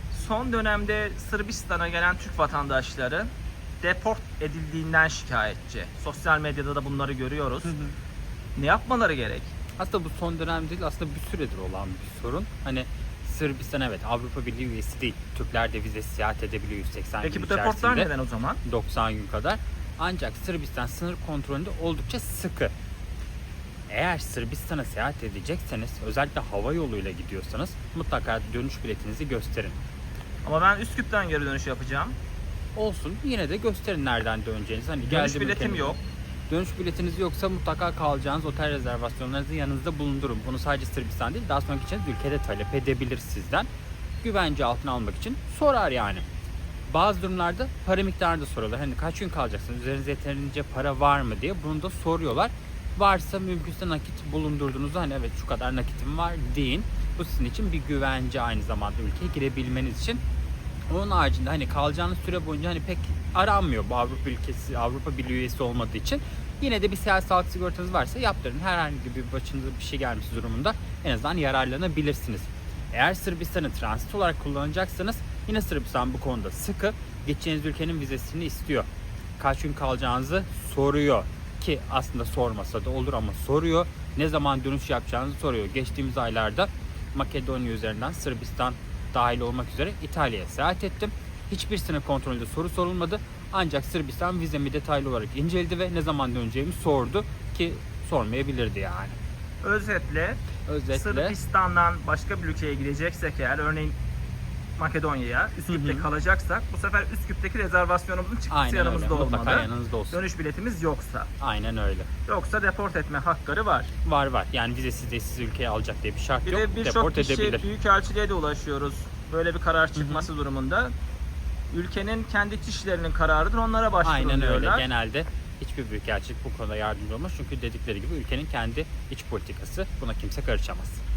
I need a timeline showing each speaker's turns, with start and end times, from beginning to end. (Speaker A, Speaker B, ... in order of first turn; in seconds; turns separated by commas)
Speaker A: 0.1-3.3, Speaker A: 3.8-7.7, Speaker B: 7.6-7.9, Speaker A: 8.6-9.5, Speaker B: 9.8-18.1, Speaker A: 17.2-18.6, Speaker B: 18.6-22.7, Speaker B: 23.9-29.8, Speaker A: 30.4-32.1, Speaker B: 32.7-36.0, Speaker A: 35.1-36.0, Speaker B: 36.5-43.7, Speaker B: 44.2-46.2, Speaker B: 46.9-60.2, Speaker B: 60.9-78.9, Speaker B: 79.4-99.2, Speaker A: 99.6-104.0, Speaker B: 100.6-101.3, Speaker A: 104.8-111.3, Speaker B: 105.7-106.1, Speaker B: 108.5-110.2, Speaker B: 111.4-112.1, Speaker A: 112.3-113.9, Speaker B: 114.0-117.7, Speaker A: 116.4-120.9, Speaker B: 119.9-120.3, Speaker A: 121.7-124.9, Speaker B: 124.0-131.0